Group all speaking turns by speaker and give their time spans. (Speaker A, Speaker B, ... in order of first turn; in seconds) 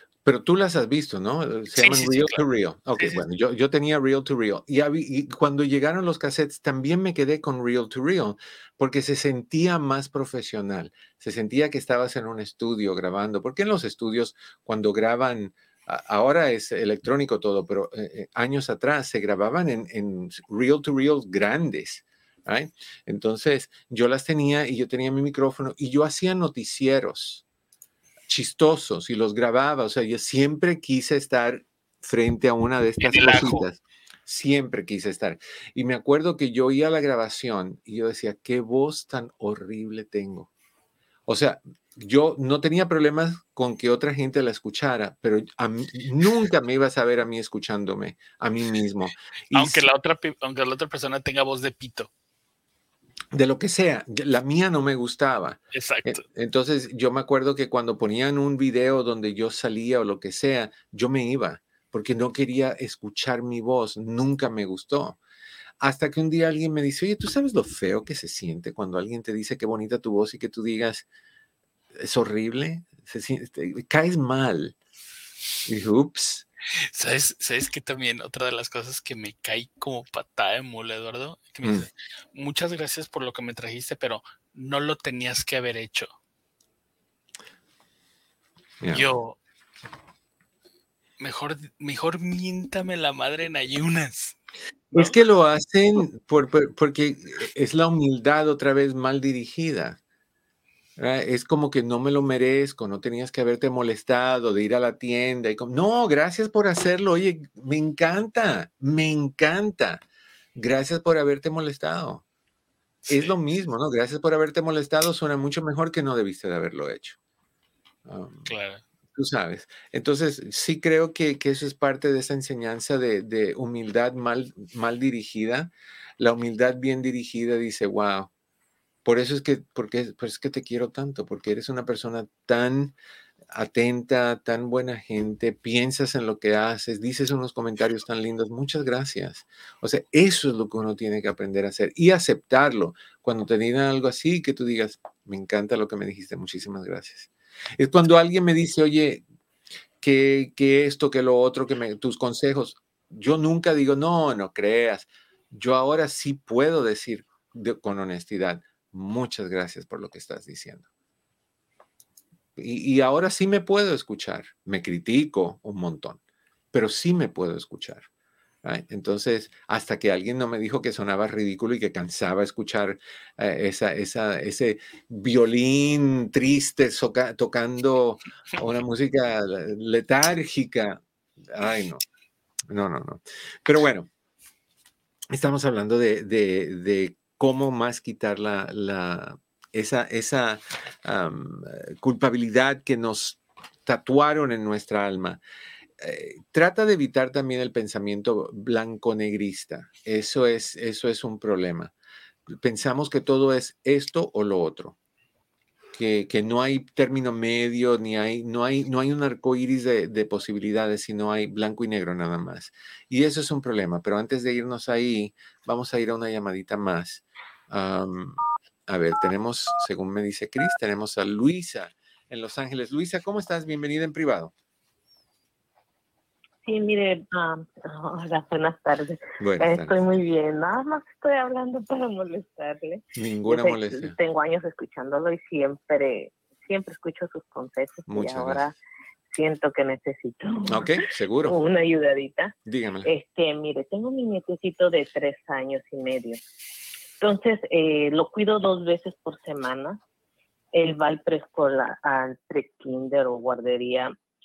Speaker A: 0.2-27.4, 28.3-40.5, 41.3-49.9, 53.3-65.2, 65.8-71.1, 72.0-74.8, 75.7-76.4, 81.6-81.9, 88.8-89.1, 94.9-100.0, 101.0-110.0, 110.5-112.2, 113.1-117.2, 118.0-118.5, 119.1-128.3, 129.0-132.9, 133.5-149.2, 150.0-160.8, 162.6-166.2, 166.7-168.1, 168.6-182.0, 182.7-184.1, 185.3-195.4, 196.0-201.9, 202.5-204.9, 205.9-224.5, 229.4-230.0, 233.2-234.2, 238.1-238.6, 240.7-241.6, 242.7-243.1
Speaker B: 1.8-2.4, 33.0-33.6, 49.5-52.1, 55.7-56.2, 76.8-86.1, 88.9-89.4, 91.2-94.4, 113.1-113.3, 118.5-118.8
Speaker C: 226.6-238.7, 239.3-242.5, 243.0-246.4, 247.2-250.0, 250.7-254.1